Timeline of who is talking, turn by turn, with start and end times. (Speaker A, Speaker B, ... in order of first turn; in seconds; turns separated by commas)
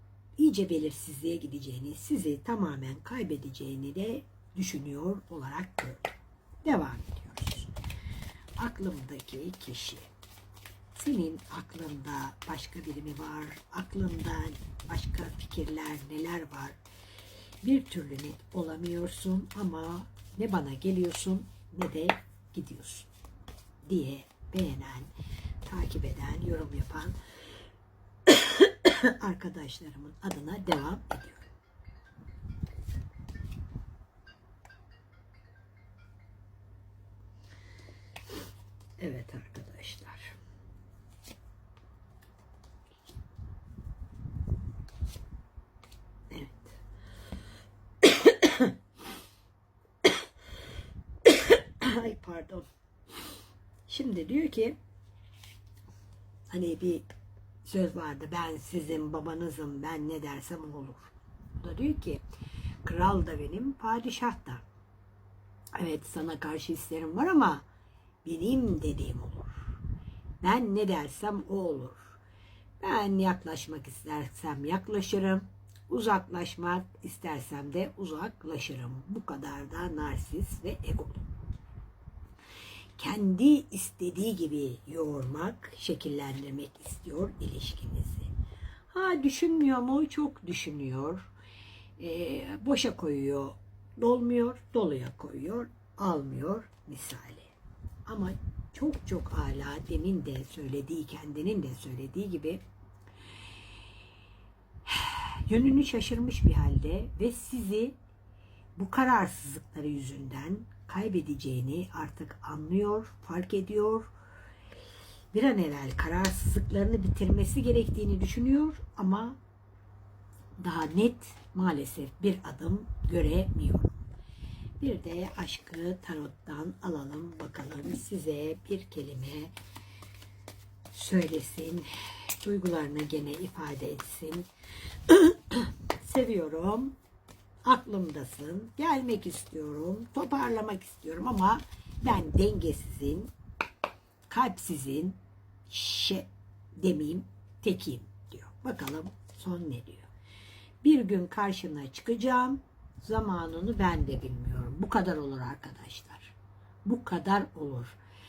Speaker A: 0.4-6.1, Speaker A: 6.6-7.7, Speaker A: 8.6-10.1, Speaker A: 10.9-16.8, Speaker A: 17.6-23.1, Speaker A: 23.8-25.1, Speaker A: 25.6-27.2, Speaker A: 28.3-31.5, Speaker A: 39.0-40.3, Speaker A: 46.3-46.8, Speaker A: 48.0-48.7, Speaker A: 51.2-52.6, Speaker A: 53.9-54.8, Speaker A: 56.5-57.1, Speaker A: 57.6-62.2, Speaker A: 62.8-64.6, Speaker A: 65.8-67.6, Speaker A: 68.2-69.6, Speaker A: 70.4-72.2, Speaker A: 72.8-81.2, Speaker A: 83.0-88.3, Speaker A: 88.9-91.3, Speaker A: 92.0-97.5, Speaker A: 98.0-102.6, Speaker A: 104.8-107.9, Speaker A: 108.8-114.1, Speaker A: 115.3-119.4, Speaker A: 120.6-124.0, Speaker A: 124.8-129.5, Speaker A: 130.9-134.5, Speaker A: 135.1-136.9, Speaker A: 137.6-143.3, Speaker A: 144.3-150.1, Speaker A: 150.8-158.0